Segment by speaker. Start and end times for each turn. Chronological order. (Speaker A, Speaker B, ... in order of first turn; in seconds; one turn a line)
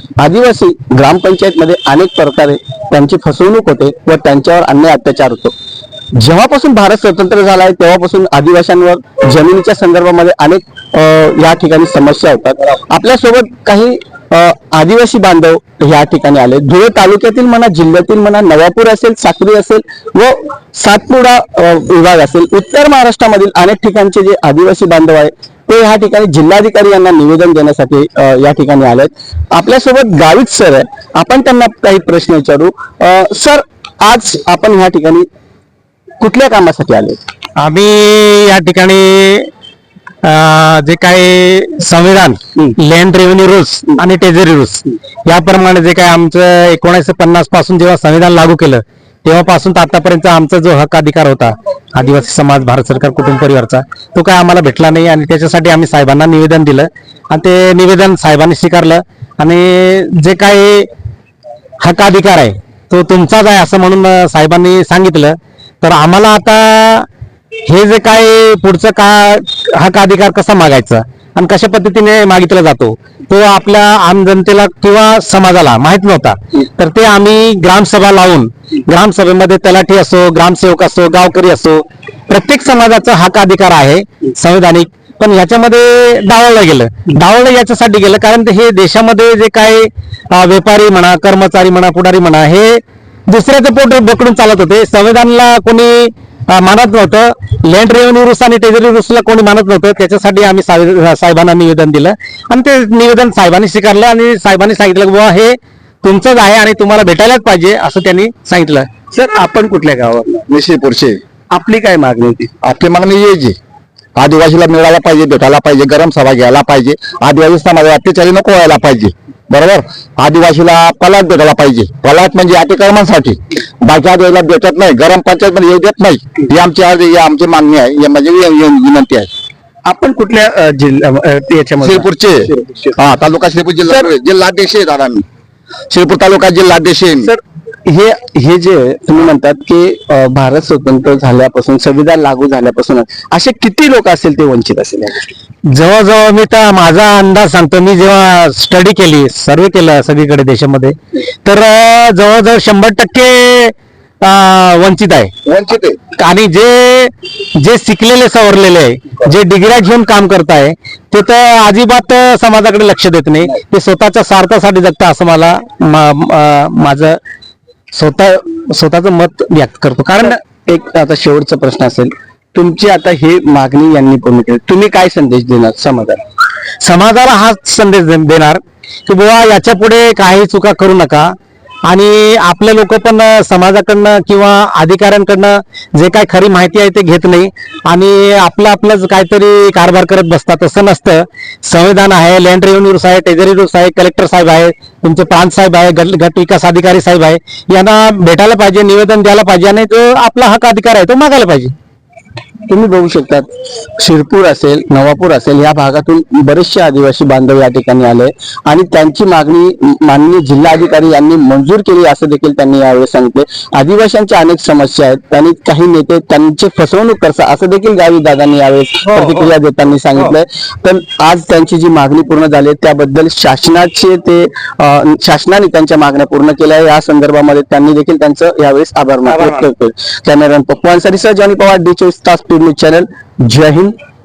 Speaker A: 0.2-5.5
Speaker A: 6.2-35.3
Speaker A: 36.2-37.2
Speaker B: 37.6-39.5
Speaker B: 40.2-60.9
Speaker B: 61.8-67.1
Speaker B: 67.7-108.9
Speaker A: 109.1-110.5
Speaker C: 110.5-111.2
Speaker A: 111.5-112.5
Speaker C: 112.6-113.6
Speaker C: 114.2-129.3
Speaker A: 129.8-132.1
Speaker C: 131.8-135.2
Speaker C: 135.9-137.3
Speaker A: 137.2-145.3
Speaker B: 145.7-155.3
Speaker C: 155.5-156.0
Speaker B: 156.2-167.2
Speaker B: 167.9-170.4
Speaker A: 170.2-176.2
Speaker B: 176.8-181.3
Speaker B: 181.9-201.7
Speaker A: 202.7-234.0
Speaker B: 219.1-219.5
Speaker B: 229.3-229.6